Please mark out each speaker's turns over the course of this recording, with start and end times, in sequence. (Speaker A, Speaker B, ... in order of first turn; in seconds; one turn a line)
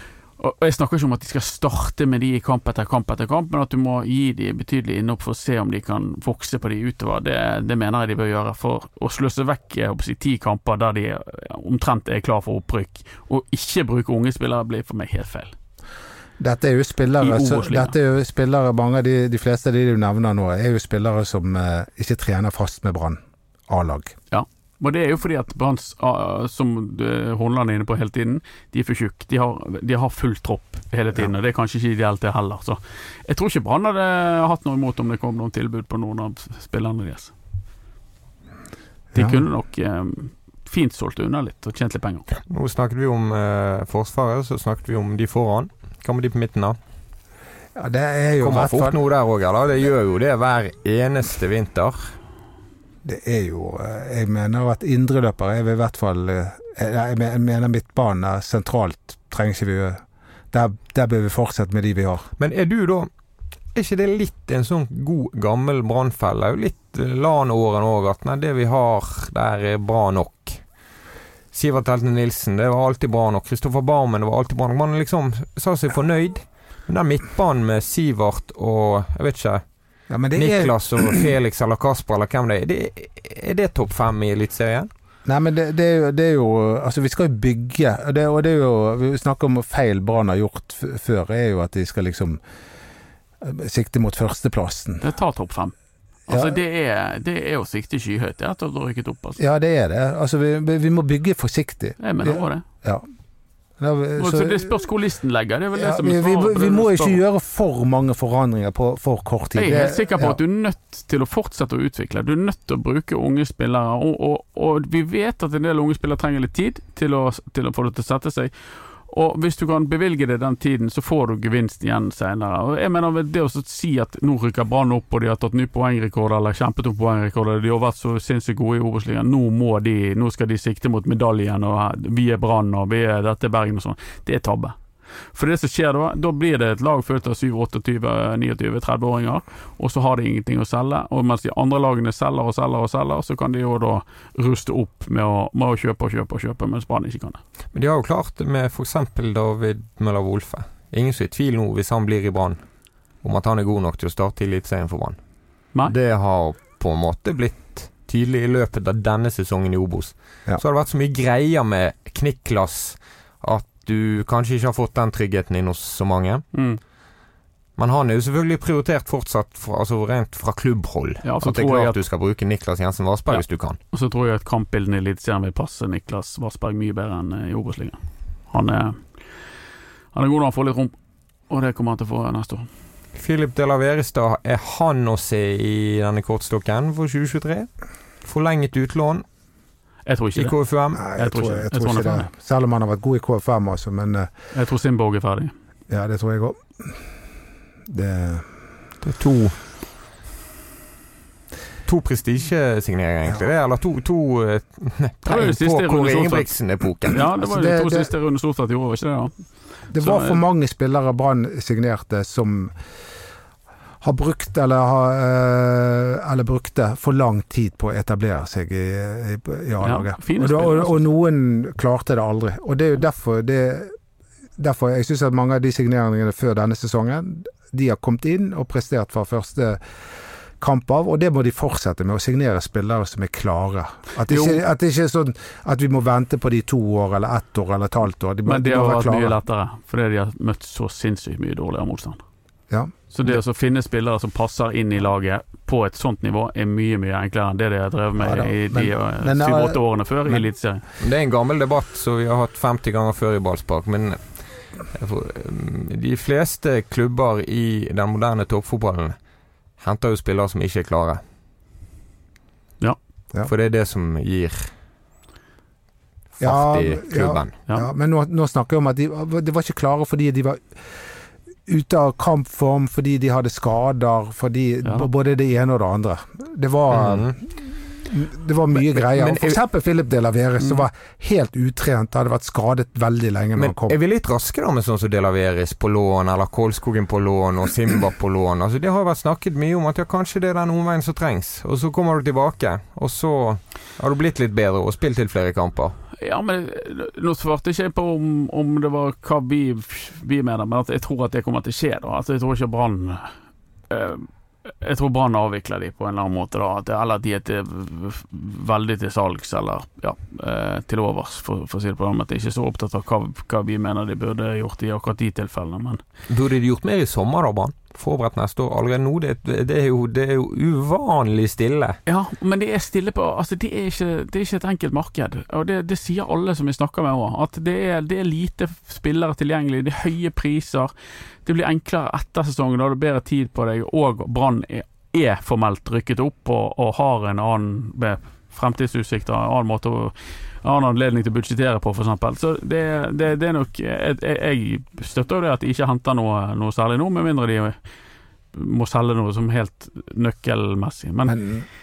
Speaker A: 0.4-15.5
Speaker B: 16.4-24.1
Speaker A: 17.2-17.9
Speaker A: 24.3-37.3
Speaker B: 39.1-39.4
Speaker A: 39.1-42.3
Speaker C: 42.5-46.8
Speaker B: 47.8-49.0
Speaker C: 48.4-52.1
Speaker B: 53.0-60.0
Speaker B: 60.5-62.3
Speaker C: 62.4-63.1
Speaker C: 63.7-70.6
Speaker C: 71.5-79.6
Speaker B: 80.1-81.3
Speaker C: 80.3-84.9
Speaker B: 85.2-92.4
Speaker B: 93.4-95.0
Speaker A: 95.0-95.7
Speaker A: 96.3-99.4
Speaker B: 96.3-96.6
Speaker B: 99.4-103.0
Speaker A: 102.0-102.6
Speaker B: 103.8-104.7
Speaker A: 104.2-107.2
Speaker B: 105.7-110.4
Speaker A: 109.5-118.5
Speaker A: 119.0-134.8
Speaker A: 135.3-147.4
Speaker C: 147.7-152.6
Speaker C: 153.2-155.2
Speaker C: 155.9-166.4
Speaker A: 166.5-166.8
Speaker C: 167.8-173.8
Speaker A: 171.2-172.0
Speaker A: 173.3-179.0
Speaker A: 180.1-180.9
Speaker A: 181.5-182.7
Speaker C: 183.1-187.7
Speaker C: 188.2-189.2
Speaker A: 190.1-190.5
Speaker C: 190.3-191.0
Speaker B: 190.9-194.3
Speaker A: 191.1-192.2
Speaker A: 194.5-195.5
Speaker B: 195.9-197.0
Speaker B: 197.9-198.5
Speaker C: 199.0-199.5
Speaker C: 201.8-207.2
Speaker A: 205.2-206.5
Speaker A: 207.1-209.3
Speaker B: 207.4-208.1
Speaker B: 209.9-212.7
Speaker A: 210.0-210.4
Speaker B: 214.0-223.9
Speaker A: 219.8-221.1
Speaker B: 224.6-229.8
Speaker B: 230.6-239.4
Speaker A: 234.3-234.6
Speaker A: 238.4-242.2
Speaker A: 243.1-250.8
Speaker B: 248.2-250.4
Speaker C: 251.0-254.3
Speaker C: 254.9-259.1
Speaker C: 259.8-261.2
Speaker C: 263.4-264.7
Speaker C: 266.4-267.5
Speaker B: 266.4-270.8
Speaker B: 271.6-284.0
Speaker C: 276.9-277.4
Speaker C: 278.7-279.6
Speaker C: 283.6-295.9
Speaker A: 296.2-303.3
Speaker A: 303.9-316.0
Speaker C: 316.3-322.0
Speaker A: 322.1-330.9
Speaker A: 331.4-347.8
Speaker A: 348.5-351.4
Speaker B: 351.2-351.7